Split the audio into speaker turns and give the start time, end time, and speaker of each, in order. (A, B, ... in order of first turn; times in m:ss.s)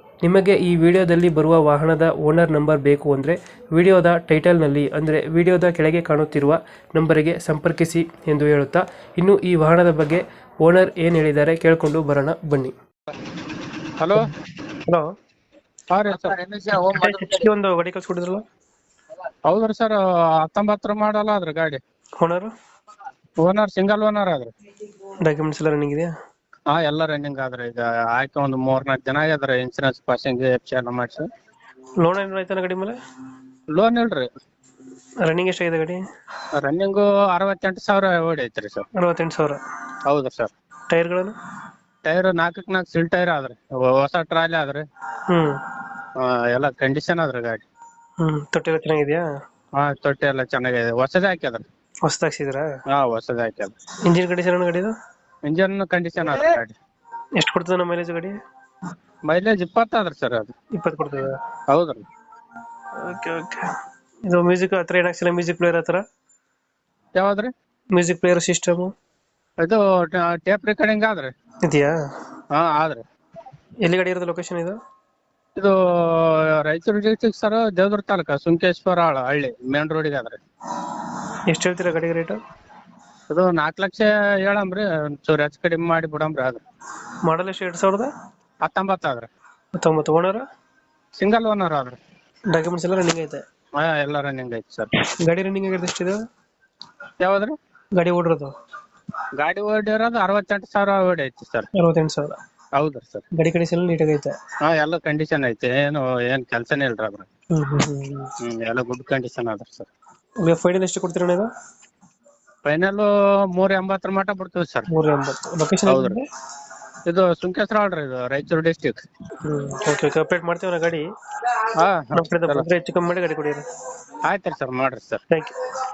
0:00.2-0:12.7 A
0:14.0-0:14.3 B
0:15.9-0:17.3 B
0:16.8-0:18.4 A
0:19.4-0:21.8 B
0:22.2-0:22.5 A
0:23.4-0:24.5 B
0:25.2-0:26.1 A
0:26.7-0:31.3 B
0:32.0-0:33.0 A
0:33.7-0:34.3 B
0:35.2-0:36.0 A
0:36.5-0:38.8 B
0:39.0-0:39.6 A
0:40.0-0:40.5 B
0:40.9-0:41.3 A
0:42.0-0:44.8 B
0:45.3-0:45.6 A
0:46.2-0:47.6 B
0:48.2-0:49.2 A
0:49.7-0:51.6 B
0:52.0-0:52.7 A
0:52.9-0:53.7 B
0:54.0-0:54.9 A
0:55.4-0:56.8 B
0:57.4-0:58.4 A
0:59.2-1:00.5 B
1:00.7-1:01.4 A
1:01.7-1:02.0 B
1:03.0-1:03.7 A
1:04.3-1:06.0 A
1:07.2-1:07.5 B
1:07.9-1:08.9 A
1:09.6-1:11.3 B
1:11.6-1:11.9 A
1:12.5-1:13.0 B
1:13.8-1:14.8 A
1:15.6-1:20.4 B
1:21.5-1:22.4 A
1:23.3-1:26.6 B
1:27.2-1:28.1 A
1:28.6-1:29.3 B
1:29.8-1:30.4 A
1:31.2-1:32.0 B
1:32.5-1:33.4 A
1:33.7-1:34.9 B
1:35.0-1:36.2 A
1:37.2-1:37.6 B
1:38.0-1:38.5 A
1:39.3-1:41.7 B
1:41.7-1:42.4 A
1:42.8-1:43.2 B
1:43.3-1:44.3 A
1:44.6-1:47.3 B
1:47.5-1:48.3 A
1:48.4-1:49.9 B
1:50.4-1:51.5 A
1:52.6-1:54.9 B
1:54.9-1:56.2 A
1:55.8-1:56.2 B
1:57.0-1:59.0 B
1:59.4-2:01.1 A
2:01.7-2:02.7 B
2:02.1-2:03.6 A
2:04.2-2:05.2 B
2:05.3-2:05.5 A